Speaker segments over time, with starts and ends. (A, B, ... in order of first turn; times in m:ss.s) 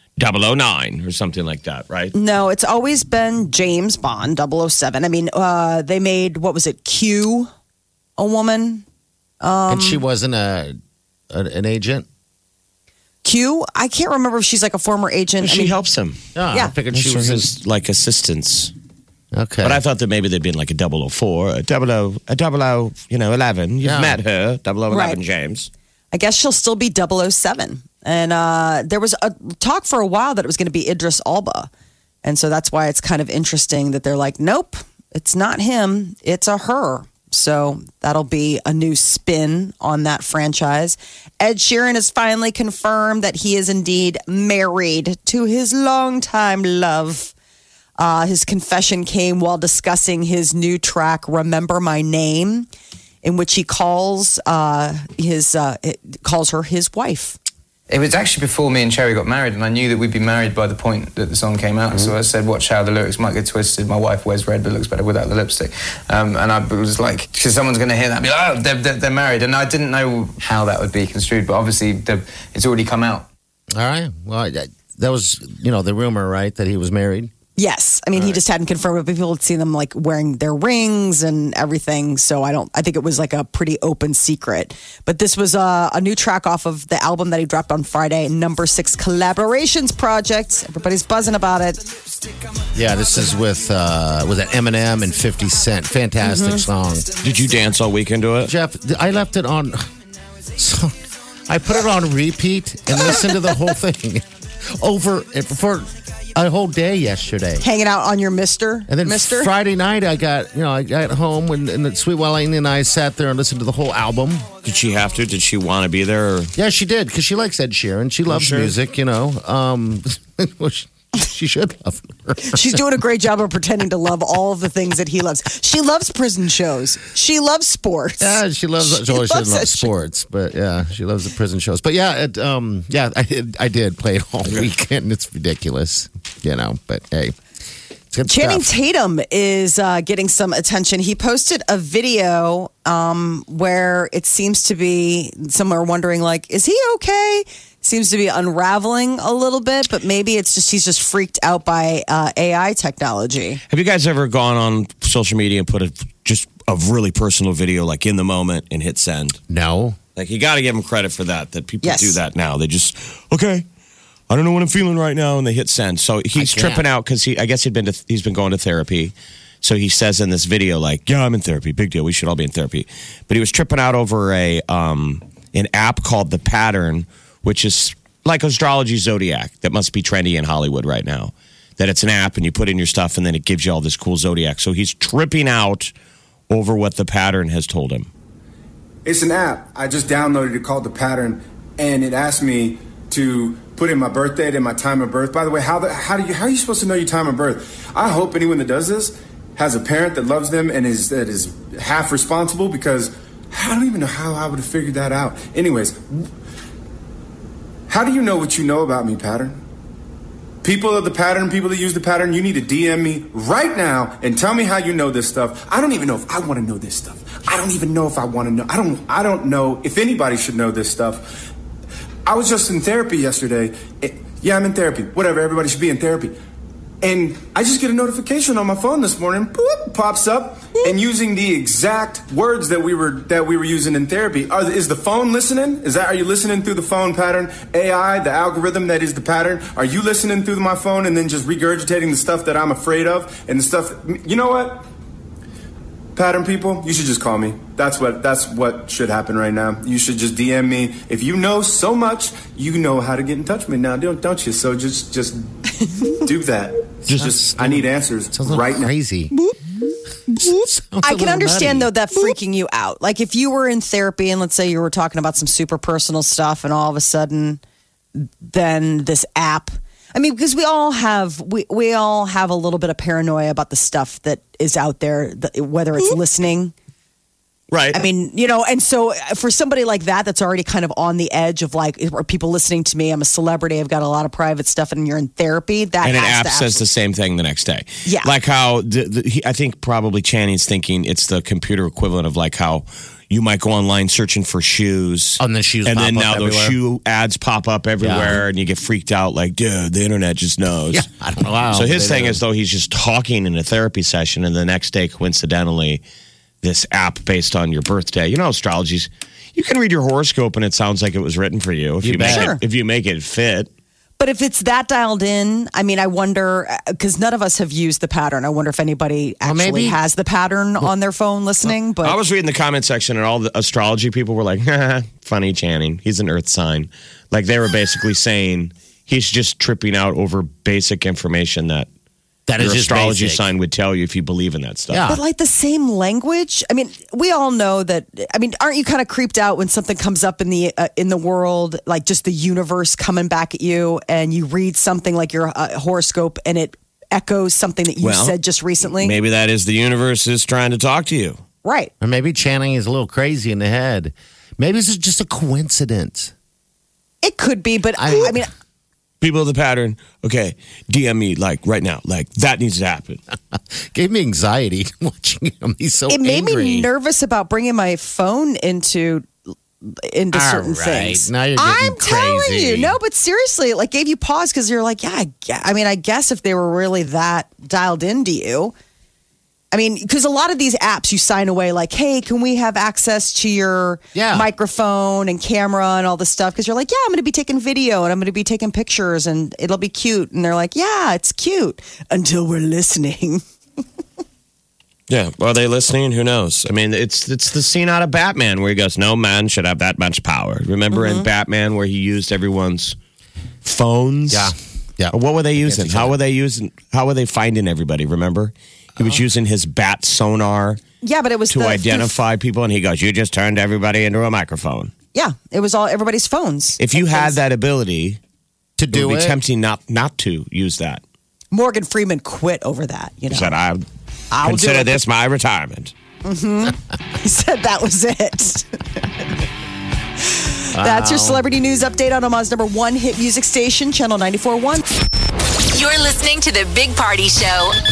0:00.2-0:02.1 A
0:02.1-0:07.5 B
0:08.2-0:08.8 B
0:09.4-0:10.0 B
0:09.7-0:10.7 C
0:11.3-0:12.0 C
0:13.2-0:15.8 B
0:15.4-0:16.2 A
0:16.3-0:17.5 C
0:16.9-0:18.7 A
0:19.3-0:19.8 C
0:19.6-0:25.7 A
0:23.8-0:24.2 C
0:24.9-0:25.2 B
0:26.1-0:31.7 B
0:32.2-0:47.3 B
0:48.0-0:52.7 B
0:53.2-0:57.4 B
0:57.9-1:13.3 D
1:13.7-1:17.3 C
1:17.6-1:31.8 B
1:32.7-1:37.1 C
1:36.2-1:36.7 B
1:37.2-1:38.5 A
1:38.4-1:39.9 C
1:40.6-1:41.0 C
1:41.5-1:47.6 C
1:47.6-1:49.5 B
1:48.9-1:54.5 C
1:54.6-1:56.5 A
1:56.6-2:02.8 C
1:58.3-1:58.7 A
2:02.4-2:09.9 B
2:08.2-2:17.4 C
2:18.1-2:18.7 C
2:18.2-2:33.6 B
2:33.7-2:39.4 A
2:39.5-2:40.0 C
2:40.2-2:43.6 A
2:41.8-2:42.2 B
2:44.3-3:05.9 A
2:46.3-2:46.8 C
3:06.5-3:08.1 A
3:09.0-3:26.3 E
3:27.9-3:29.6 E
3:30.6-3:41.4 E
3:42.2-3:46.3 E
3:47.0-4:04.9 E
4:06.1-4:18.9 E
4:17.0-4:19.3 C
4:20.3-4:21.9 C
4:21.0-4:27.6 B
4:28.1-4:36.7 B
4:37.7-4:38.0 A
4:37.9-4:46.8 B
4:46.0-5:01.0 A
4:48.0-4:48.3 B
4:55.4-4:56.8 C
4:58.0-4:58.4 C
5:00.9-5:02.4 C
5:01.7-5:06.0 A
5:06.6-5:13.7 A
5:12.0-5:12.5 C
5:12.2-5:12.6 B
5:14.2-5:22.2 B
5:19.4-5:20.0 C
5:22.0-5:31.9 A
5:32.5-5:33.5 C
5:32.6-5:35.1 A
5:34.9-5:35.2 C
5:35.1-5:49.2 B
5:48.0-5:51.4 A
5:51.6-5:51.9 B
5:52.0-5:56.3 C
5:57.2-5:58.5 B
5:58.0-5:58.4 C
5:59.2-6:03.2 A
6:03.5-6:06.9 C
6:06.1-6:09.3 B
6:09.8-6:18.7 B
6:10.3-6:13.0 C
6:19.7-6:33.4 B
6:24.1-6:24.5 C
6:35.1-6:43.0 A
6:40.9-6:41.3 B
6:43.6-6:44.5 A
6:44.3-6:46.2 C
6:45.1-6:50.8 A
6:51.0-6:52.1 B
6:51.5-6:54.9 A
6:55.1-6:57.3 B
6:56.8-6:58.2 A
6:58.8-6:59.4 C
6:58.9-7:01.0 A
7:01.5-7:03.5 B
7:03.3-7:03.8 A
7:04.3-7:05.0 B
7:04.4-7:05.9 A
7:06.2-7:08.8 B
7:10.2-7:14.8 B
7:10.7-7:11.4 C
7:15.7-7:17.7 F